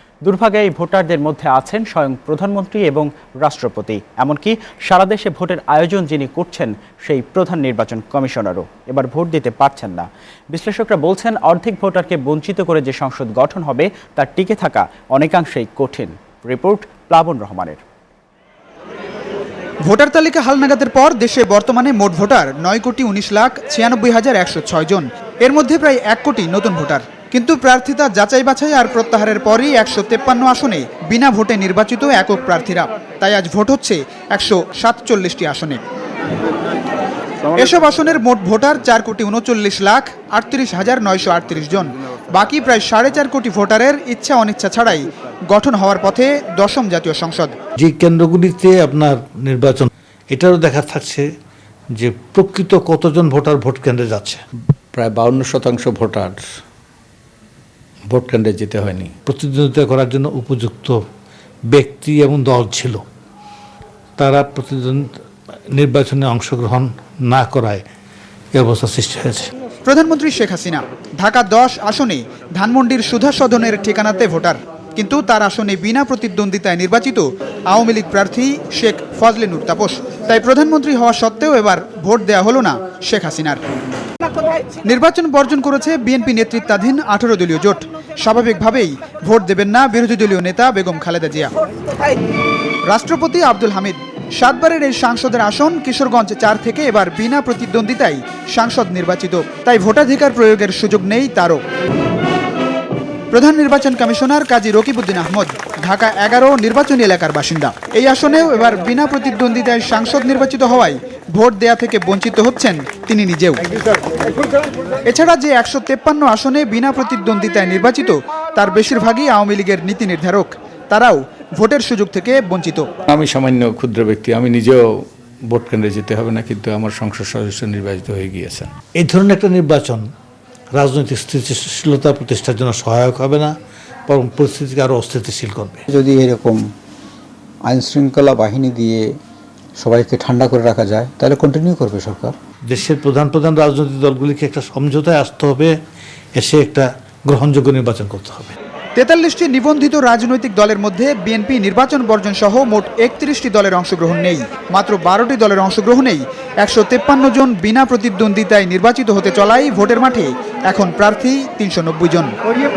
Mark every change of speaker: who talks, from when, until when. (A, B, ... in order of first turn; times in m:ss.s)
0:00.2-0:17.8 A
0:19.9-0:35.8 B
0:37.5-0:47.5 B
0:47.8-0:51.2 C
0:52.0-0:54.4 C
0:54.9-0:56.4 D
0:58.1-0:59.1 D
0:59.2-1:01.0 C
1:01.7-1:03.0 C
1:04.2-1:05.1 C
1:05.7-1:07.8 C
1:08.5-1:09.5 C
1:09.9-1:23.6 B
1:24.8-1:31.5 B
1:32.9-1:41.6 B
1:43.3-1:53.6 B
1:55.1-2:02.9 B
2:03.1-2:08.7 D
2:09.0-2:10.0 C
2:10.8-2:13.5 C
2:14.1-2:15.8 C
2:15.9-2:16.7 E
2:17.6-2:19.2 E
2:19.8-2:22.3 E
2:22.7-2:25.8 C
2:26.4-2:28.5 C
2:29.0-2:42.3 B